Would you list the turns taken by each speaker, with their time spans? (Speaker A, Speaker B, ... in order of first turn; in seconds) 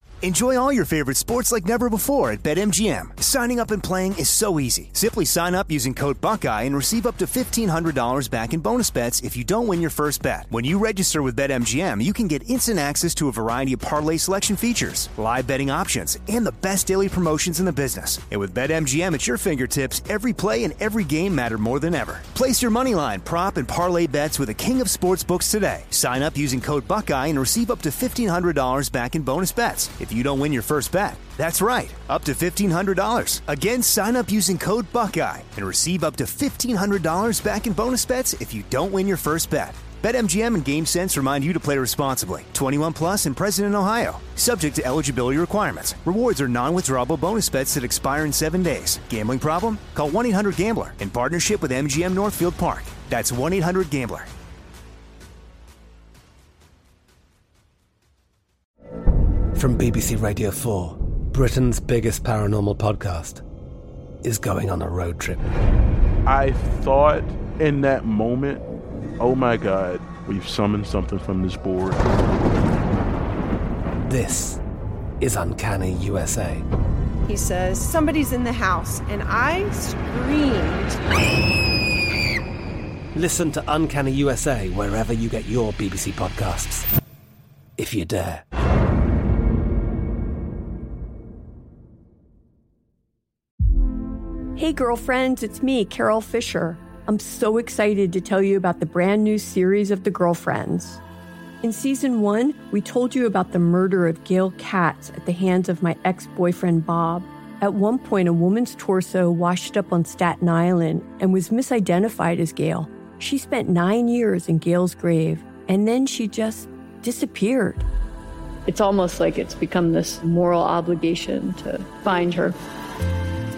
Speaker A: 0.2-54.3
Speaker B: 59.5-63.4, 64.2-65.4, 74.0-74.6, 75.2-76.6, 83.1-86.8, 87.8-88.4
Speaker C: 66.2-68.6, 69.2-72.0
Speaker D: 77.2-81.0
Speaker E: 94.5-101.0, 101.6-117.8
Speaker F: 118.7-122.5